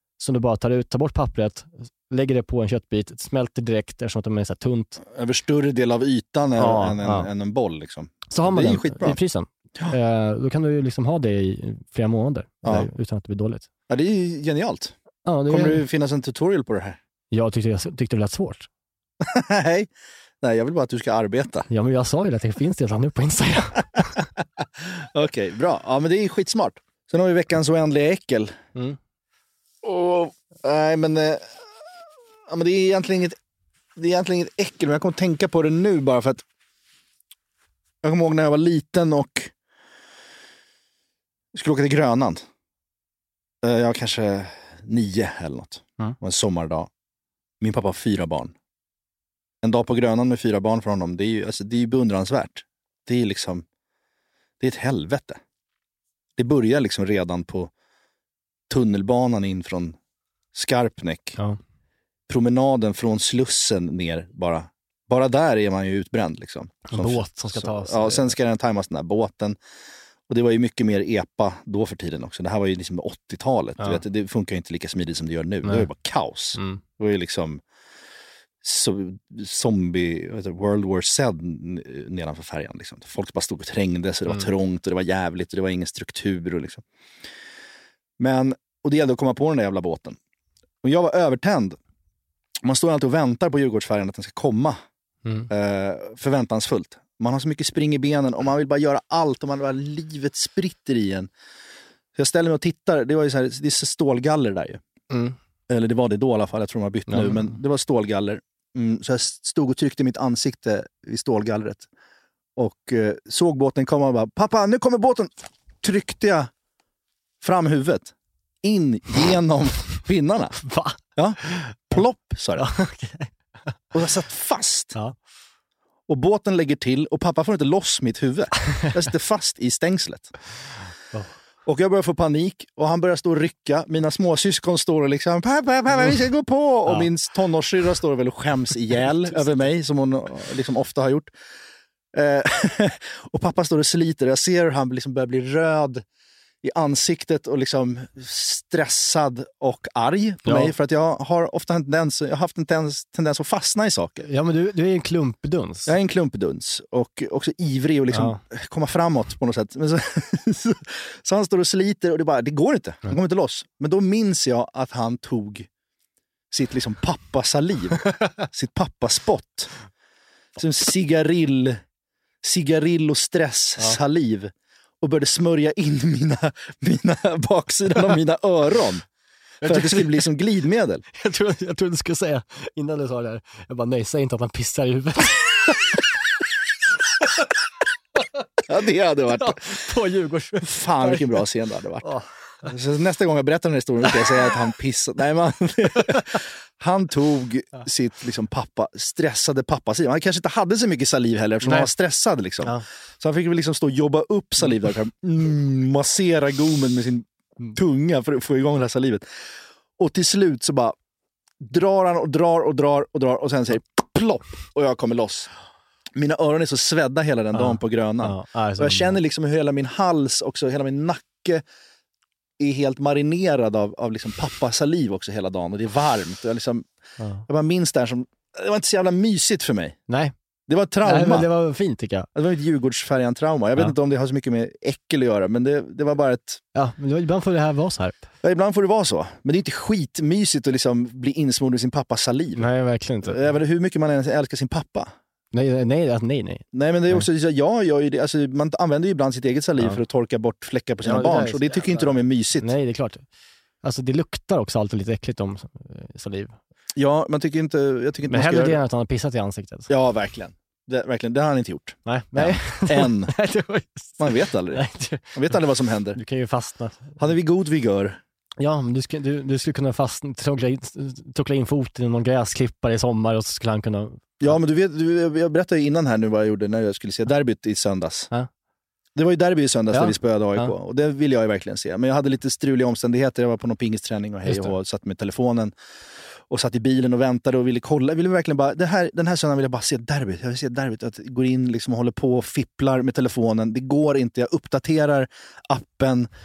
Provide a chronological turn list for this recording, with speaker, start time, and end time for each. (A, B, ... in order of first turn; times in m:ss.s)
0:00.2-0:05.0 A
0:05.0-0:09.2 B
0:06.6-0:07.3 A
0:08.3-0:13.7 A
0:12.6-0:12.9 B
0:13.9-0:15.0 B
0:15.3-0:15.8 A
0:15.5-0:17.0 B
0:17.3-0:18.7 A
0:19.2-0:19.9 B
0:20.4-0:21.7 B
0:21.7-0:24.2 A
0:24.6-0:28.6 B
0:29.8-0:31.7 B
0:32.5-0:33.4 B
0:34.0-0:36.4 B
0:38.0-0:39.5 B
0:41.5-0:42.4 B
0:43.6-0:46.9 B
0:47.6-0:48.5 B
0:49.6-0:53.6 B
0:54.6-0:55.4 B
0:56.4-0:57.7 B
0:58.7-1:00.0 B
1:00.5-1:01.4 B
1:02.3-1:09.6 B
1:06.9-1:08.3 A
1:10.3-1:17.6 B
1:16.6-1:16.8 A
1:18.6-1:26.8 B
1:28.2-1:30.2 B
1:30.8-1:31.8 B
1:32.6-1:34.8 B
1:35.5-1:41.3 B
1:42.2-1:44.8 B
1:45.1-1:45.4 A
1:45.7-1:51.9 B
1:47.1-1:47.5 A
1:52.6-1:55.3 B
1:55.8-1:56.5 B
1:57.4-2:00.6 B
2:00.6-2:02.0 A
2:01.2-2:02.7 B
2:02.6-2:03.7 A
2:03.9-2:05.0 B
2:06.1-2:10.3 B
2:11.7-2:21.3 B
2:22.1-2:26.0 B
2:26.6-2:34.3 B
2:30.4-2:30.7 A
2:34.2-2:35.9 A
2:35.9-2:45.7 B
2:38.1-2:38.4 A
2:46.5-2:49.7 B
2:50.6-2:51.8 B
2:52.4-2:59.0 B
2:59.6-3:00.2 A
2:59.6-3:01.0 B
3:01.2-3:06.0 A
3:08.6-3:09.8 B
3:09.4-3:11.3 A
3:10.6-3:12.1 B
3:12.6-3:29.2 B
3:21.6-3:21.9 A
3:30.0-3:31.0 B
3:31.6-3:35.5 B
3:36.2-3:41.6 B
3:37.5-3:39.2 A
3:42.6-3:46.9 B
3:47.2-3:47.4 A
3:47.5-3:50.0 B
3:50.1-3:50.3 A
3:50.7-3:51.5 B
3:51.0-3:52.3 A
3:52.4-3:56.6 B
3:56.8-3:58.2 A
3:58.4-4:02.7 B
4:02.6-4:03.4 A
4:03.2-4:05.1 B
4:05.5-4:07.3 A
4:06.7-4:12.7 B
4:11.0-4:13.3 A
4:13.8-4:16.6 A
4:17.0-4:18.8 B
4:18.3-4:19.9 A
4:19.9-4:23.4 B
4:22.1-4:25.6 A
4:24.2-4:26.2 B
4:26.2-4:27.2 A
4:27.2-4:28.2 B
4:28.6-4:34.6 A
4:34.4-4:38.3 B
4:39.2-4:45.7 B
4:39.9-4:40.7 A
4:44.5-4:44.7 A
4:46.5-4:56.3 B